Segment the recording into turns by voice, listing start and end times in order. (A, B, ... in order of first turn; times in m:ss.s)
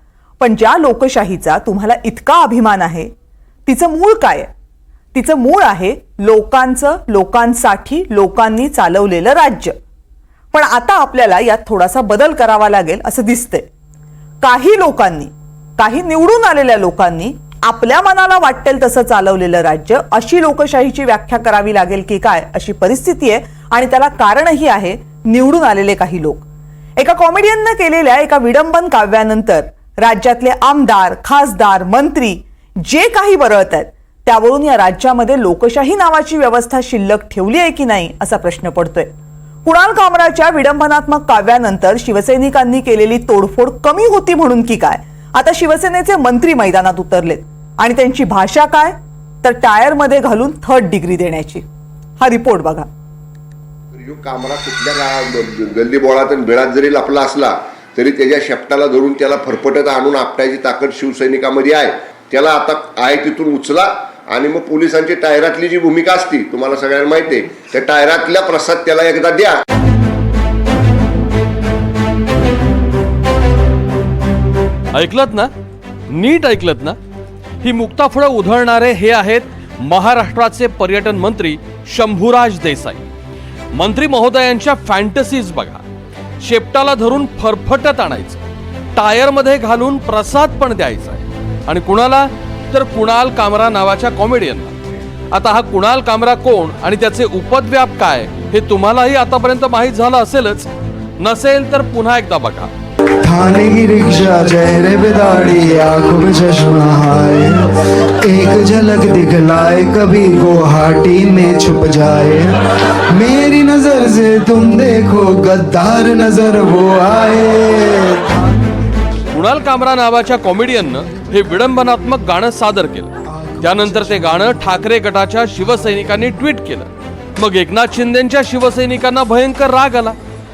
0:00.4-0:03.1 A
0:03.7-0:04.5 A
0:05.1-0:09.8 A
0:10.5-0:13.7 A
0:14.4-0:26.4 A
0:27.0-0:39.1 A
0:39.6-0:51.6 A
0:52.2-0:52.9 A
0:53.9-1:09.6 B
1:14.9-1:15.5 C
1:16.1-1:17.0 C
1:17.6-1:23.1 C
1:23.7-1:25.8 C
1:26.4-1:28.4 C
1:29.0-1:34.8 C
1:35.3-1:42.7 C
1:43.2-1:52.6 D
1:53.1-1:58.3 D
1:59.3-2:10.2 C
2:03.7-2:04.4 D